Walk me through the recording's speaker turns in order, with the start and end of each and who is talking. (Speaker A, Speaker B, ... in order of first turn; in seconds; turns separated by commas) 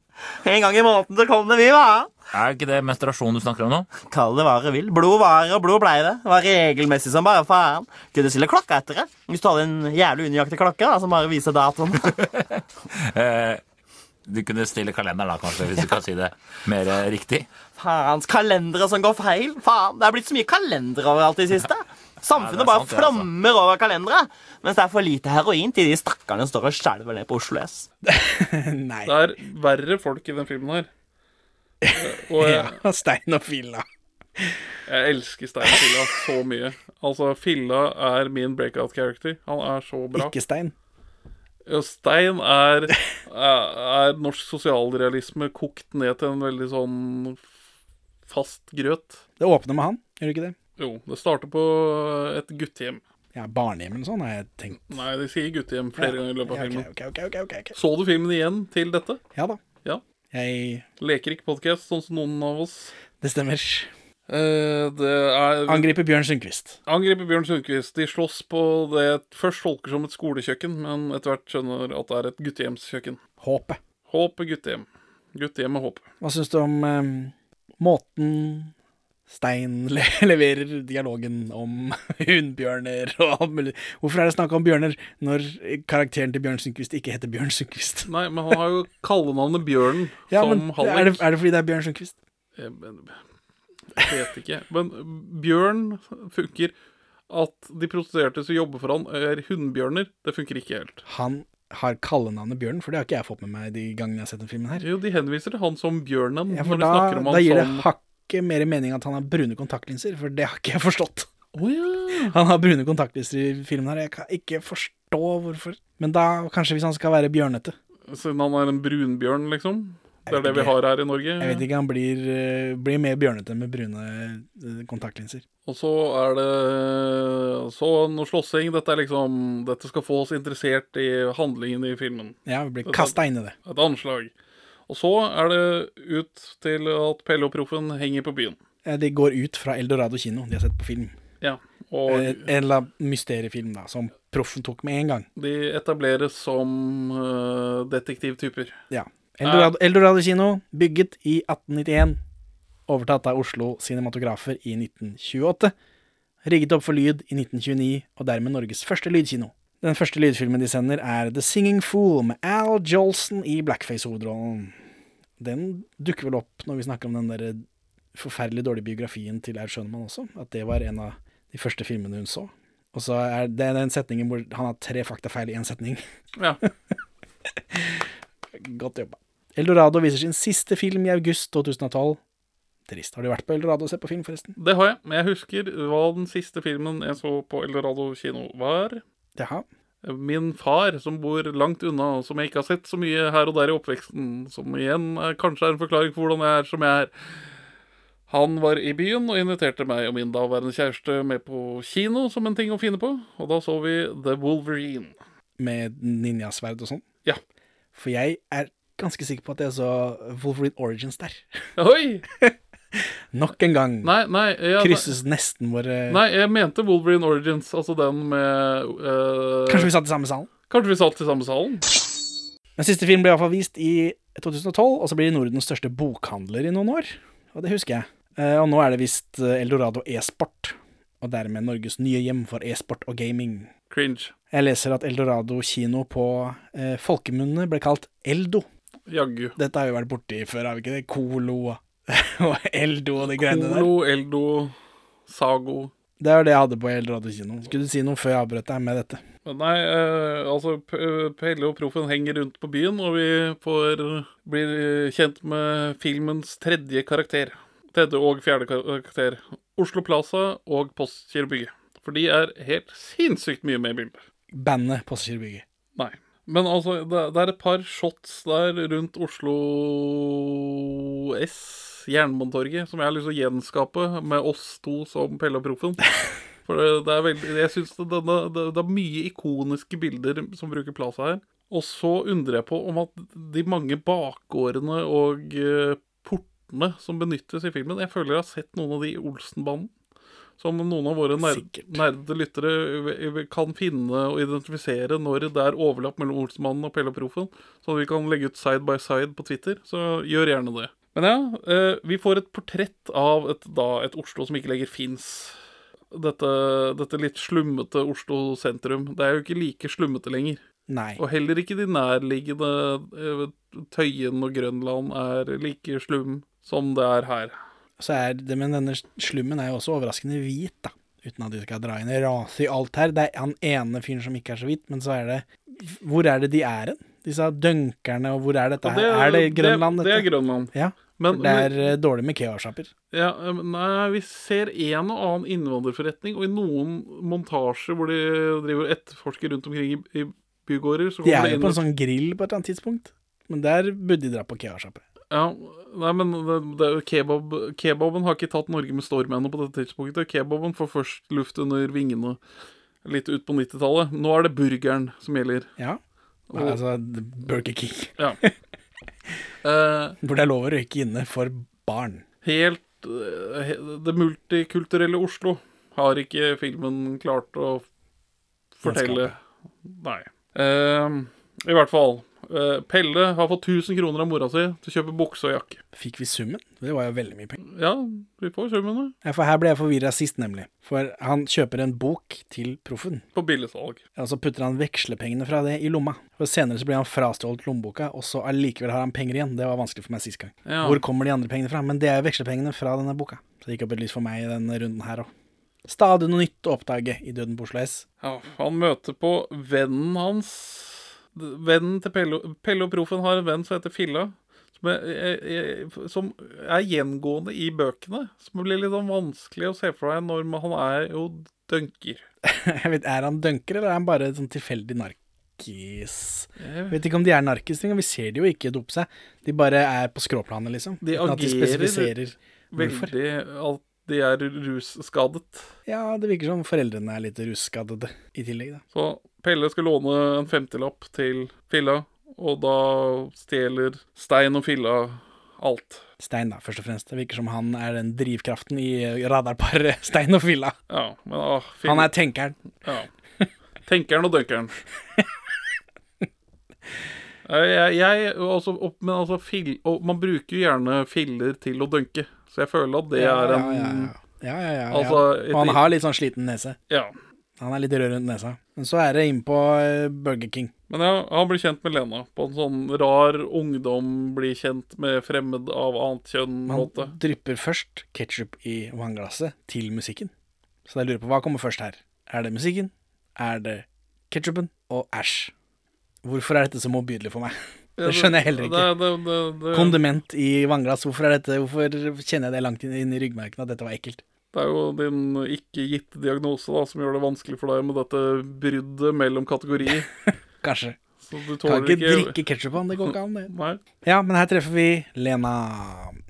Speaker A: 0.4-2.1, Speaker B: 2.3-3.9, Speaker A: 4.0-12.2, Speaker B: 12.1-13.6, Speaker B: 14.3-17.5, Speaker A: 17.8-27.9, Speaker B: 22.3-23.3, Speaker C: 28.0-29.2, Speaker D: 29.0-30.9, Speaker C: 31.8-33.8, Speaker D: 31.9-32.8, Speaker D: 34.9-40.3, Speaker C: 35.6-36.0, Speaker C: 40.1-40.7, Speaker D: 41.7-47.4, Speaker D: 48.3-49.2, Speaker C: 49.4-50.5, Speaker D: 50.8-53.0, Speaker C: 53.3-55.0, Speaker D: 54.9-56.9, Speaker C: 56.0-57.7, Speaker D: 57.7-59.2, Speaker C: 59.3-59.6, Speaker C: 60.3-60.9, Speaker D: 61.0-62.9, Speaker C: 63.2-63.9, Speaker D: 64.3-65.9, Speaker C: 65.7-66.8, Speaker D: 66.8-73.2, Speaker C: 73.4-73.8, Speaker D: 74.1-76.0, Speaker C: 76.2-78.7, Speaker C: 79.3-88.1, Speaker D: 88.0-91.2, Speaker C: 90.3-92.2, Speaker D: 92.6-93.2, Speaker D: 93.9-96.7, Speaker D: 97.3-101.0, Speaker C: 101.0-104.8, Speaker D: 104.8-107.8, Speaker C: 106.5-111.3, Speaker D: 111.5-112.3, Speaker C: 112.3-117.8, Speaker D: 118.1-121.6, Speaker C: 120.3-120.8, Speaker C: 121.4-125.4, Speaker D: 125.7-134.3, Speaker C: 132.4-133.6, Speaker D: 134.9-138.6, Speaker C: 138.8-141.1, Speaker D: 141.4-142.5, Speaker C: 142.1-145.2, Speaker D: 145.3-148.8, Speaker C: 148.9-152.2, Speaker D: 149.4-149.7, Speaker C: 152.9-155.7, Speaker C: 156.4-164.8, Speaker C: 165.4-167.6, Speaker C: 168.1-176.0, Speaker C: 177.5-182.2, Speaker C: 182.9-184.5, Speaker D: 184.6-189.0, Speaker C: 189.3-189.6, Speaker D: 190.0-197.1, Speaker D: 198.3-205.2, Speaker C: 205.6-207.0, Speaker C: 207.9-211.4, Speaker D: 211.8-212.2, Speaker C: 212.4-214.2, Speaker D: 214.0-215.2, Speaker C: 214.8-216.2, Speaker D: 216.1-219.9, Speaker C: 219.7-220.5, Speaker D: 220.7-221.8, Speaker C: 222.8-233.7, Speaker D: 233.9-234.3, Speaker C: 234.5-238.7, Speaker D: 239.1-239.6, Speaker C: 239.6-243.9, Speaker D: 243.2-244.7, Speaker D: 245.3-245.9, Speaker C: 246.2-249.2, Speaker D: 249.4-264.2, Speaker C: 264.5-265.6, Speaker D: 266.0-276.1, Speaker D: 276.6-289.9, Speaker D: 290.6-305.6, Speaker C: 291.4-292.0, Speaker D: 306.1-310.6, Speaker C: 310.9-311.2, Speaker D: 311.2-317.6, Speaker C: 318.0-332.9, Speaker D: 328.8-331.9, Speaker D: 333.1-341.8, Speaker C: 341.2-345.0, Speaker D: 345.3-352.4, Speaker D: 353.0-355.7, Speaker D: 356.5-356.8, Speaker C: 356.5-358.5, Speaker D: 359.6-360.2, Speaker C: 360.2-362.2, Speaker D: 362.4-367.8, Speaker D: 368.8-375.8, Speaker C: 368.8-369.3, Speaker C: 375.9-377.6, Speaker D: 377.6-379.1, Speaker C: 379.2-383.2, Speaker D: 383.3-384.0, Speaker C: 384.1-395.3, Speaker D: 390.6-391.0, Speaker C: 395.9-398.0, Speaker D: 398.2-412.2, Speaker C: 412.4-423.1, Speaker D: 416.6-417.0, Speaker D: 421.0-422.1, Speaker D: 422.7-425.7, Speaker C: 425.9-428.8, Speaker D: 428.9-436.0, Speaker C: 436.2-440.8, Speaker D: 440.9-442.1, Speaker C: 441.8-442.6, Speaker D: 442.8-443.1, Speaker D: 443.9-444.8, Speaker D: 447.4-454.1, Speaker C: 453.1-456.8, Speaker D: 454.9-455.8, Speaker D: 456.9-457.1, Speaker C: 457.6-460.7, Speaker D: 460.9-467.1, Speaker C: 466.7-470.3, Speaker C: 470.9-475.5, Speaker C: 476.2-478.9, Speaker D: 478.0-480.0, Speaker C: 479.7-484.2, Speaker D: 484.5-490.1, Speaker C: 490.6-491.0, Speaker D: 491.2-492.4, Speaker C: 491.6-493.5, Speaker D: 493.0-493.8, Speaker C: 494.0-496.2